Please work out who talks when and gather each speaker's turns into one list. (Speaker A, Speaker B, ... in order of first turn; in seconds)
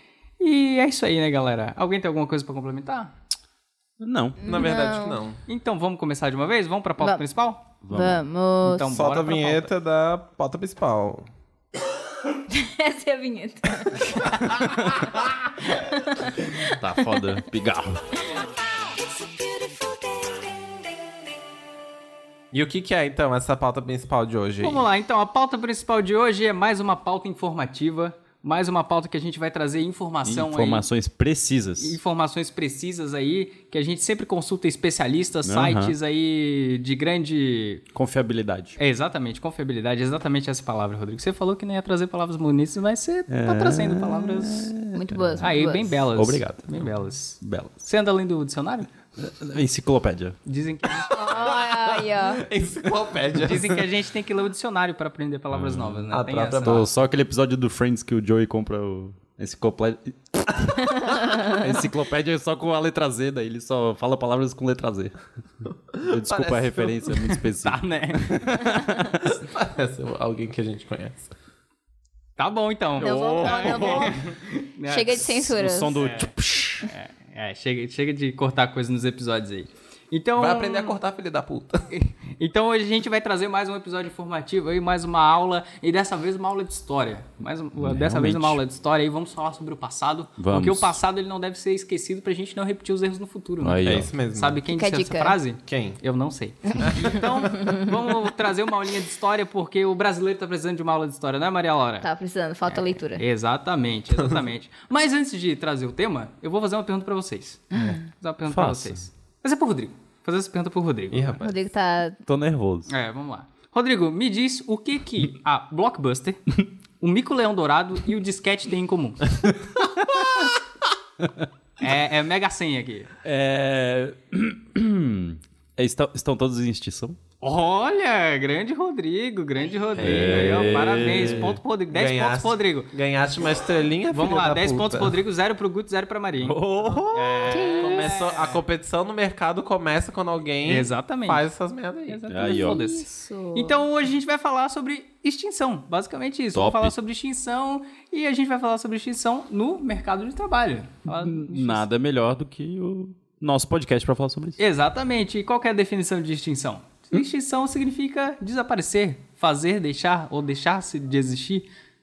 Speaker A: 0.4-3.1, 5.5-7.7, 8.6-9.7, 24.6-30.9, 31.8-37.8, 38.8-44.7, 45.4-48.9, 50.5-51.1, 53.4-56.9, 67.6-68.3, 72.4-75.3, 76.0-76.3, 76.8-80.9, 81.9-102.1, 102.7-111.4, 112.9-116.4, 117.0-119.5, 121.8-123.1, 127.4-132.9, 134.1-138.6, 140.7-141.4, 142.1-151.8, 154.6-161.7
Speaker B: 4.0-4.4, 7.8-8.2, 16.7-18.1, 30.2-32.0, 35.4-35.9, 37.9-38.8, 43.3-45.5, 46.1-47.7, 49.2-50.4, 55.5-56.0, 56.6-65.2, 66.0-69.3, 73.0-74.2, 75.1-76.9, 87.8-88.6, 90.4-91.0, 93.6-94.1, 108.5-109.0, 112.3-112.9, 119.8-120.2, 121.2-121.5, 123.2-127.2, 130.0-131.6, 136.4-137.7, 142.3-142.8, 146.5-146.9, 151.1-154.6
Speaker C: 4.4-5.2, 7.9-8.9, 12.5-16.7, 44.9-45.9, 51.1-52.4, 61.0-61.5, 73.0-74.2, 74.9-76.0, 94.7-95.4, 102.0-103.2, 111.4-112.2, 137.5-138.0, 142.4-143.8
Speaker D: 4.4-5.4, 8.8-11.3, 22.5-24.9, 51.3-53.8, 56.1-56.9, 65.9-67.1, 69.2-71.3, 80.3-81.9, 93.8-94.6, 95.7-96.0, 96.8-97.1, 111.1-111.6, 131.9-135.2, 137.8-142.2